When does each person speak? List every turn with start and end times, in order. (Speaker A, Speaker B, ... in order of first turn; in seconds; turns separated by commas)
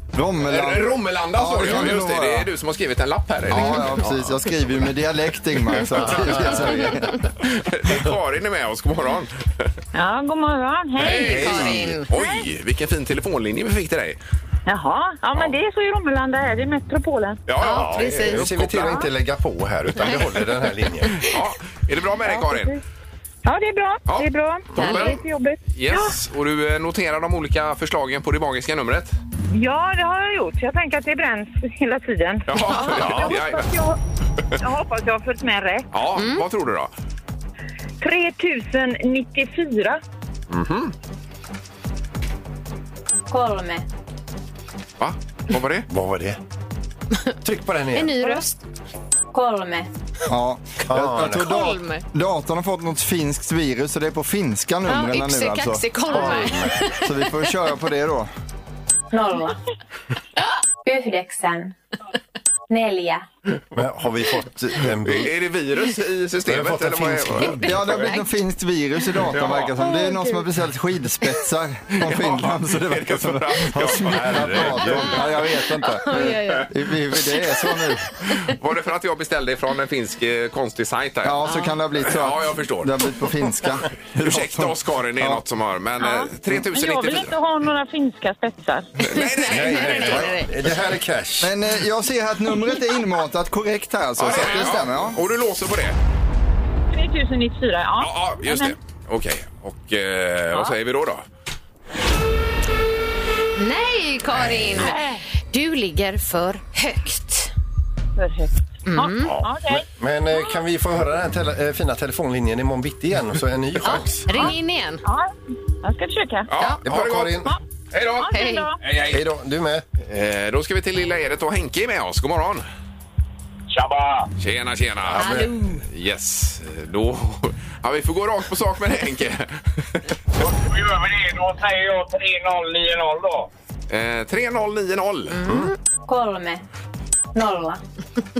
Speaker A: 0.1-2.5, Speaker B: 0.4-4.2, Speaker A: 3.5-7.1, Speaker C: 5.9-7.2, Speaker B: 7.4-9.7, Speaker D: 9.9-11.5, Speaker B: 11.0-14.2, Speaker C: 11.0-12.0, Speaker E: 11.0-12.4, Speaker D: 14.7-17.4, Speaker B: 17.5-19.1, Speaker E: 17.6-19.1, Speaker C: 17.6-21.3, Speaker B: 21.2-22.8, Speaker D: 22.3-22.8, Speaker D: 23.4-26.2, Speaker B: 24.1-25.2, Speaker E: 24.8-25.2, Speaker C: 24.8-25.0, Speaker B: 25.7-29.1, Speaker D: 29.5-34.0, Speaker B: 32.5-33.7, Speaker E: 32.7-33.1, Speaker C: 33.0-33.3, Speaker D: 34.6-35.9, Speaker B: 35.9-36.9, Speaker E: 36.2-36.4, Speaker D: 38.0-40.0, Speaker B: 40.5-40.9, Speaker F: 43.3-43.8, Speaker B: 45.0-45.9, Speaker C: 45.9-46.4, Speaker C: 47.4-48.2, Speaker E: 47.9-48.6, Speaker F: 49.3-49.9, Speaker A: 50.3-55.9, Speaker C: 50.9-51.7, Speaker E: 51.2-52.0, Speaker E: 54.9-57.3, Speaker C: 56.0-56.8, Speaker A: 57.0-58.3, Speaker F: 59.1-59.6, Speaker F: 60.8-61.8, Speaker F: 62.7-63.2, Speaker C: 63.8-65.3, Speaker B: 64.8-68.0, Speaker C: 66.5-67.9, Speaker A: 67.6-78.1, Speaker E: 67.7-68.2, Speaker B: 69.3-69.8, Speaker E: 69.8-70.4, Speaker B: 72.0-74.8, Speaker C: 74.0-75.3, Speaker E: 75.1-76.7, Speaker B: 78.4-81.4, Speaker A: 81.2-85.4, Speaker E: 81.5-81.8, Speaker B: 82.0-83.0, Speaker B: 84.2-87.4, Speaker D: 86.0-88.9, Speaker B: 89.0-90.4, Speaker E: 89.0-90.5, Speaker C: 89.4-91.5, Speaker A: 91.4-95.2, Speaker B: 94.2-96.0, Speaker D: 96.9-98.8, Speaker B: 98.0-101.2, Speaker E: 103.6-105.0, Speaker D: 104.8-105.2, Speaker E: 105.5-107.5, Speaker D: 108.2-109.9, Speaker E: 108.9-109.3, Speaker C: 109.2-114.3, Speaker E: 113.8-115.0, Speaker D: 114.3-115.3, Speaker D: 115.8-116.5, Speaker B: 116.5-119.2, Speaker C: 116.8-117.5, Speaker D: 118.2-118.8, Speaker E: 118.3-118.7, Speaker C: 118.9-119.8, Speaker B: 120.0-122.7, Speaker G: 123.7-124.3, Speaker B: 124.4-130.0, Speaker C: 125.0-125.5, Speaker E: 125.1-125.8, Speaker G: 130.4-133.5, Speaker B: 133.9-135.4, Speaker E: 135.3-135.7, Speaker C: 135.5-135.7, Speaker F: 136.1-136.6, Speaker F: 137.3-137.8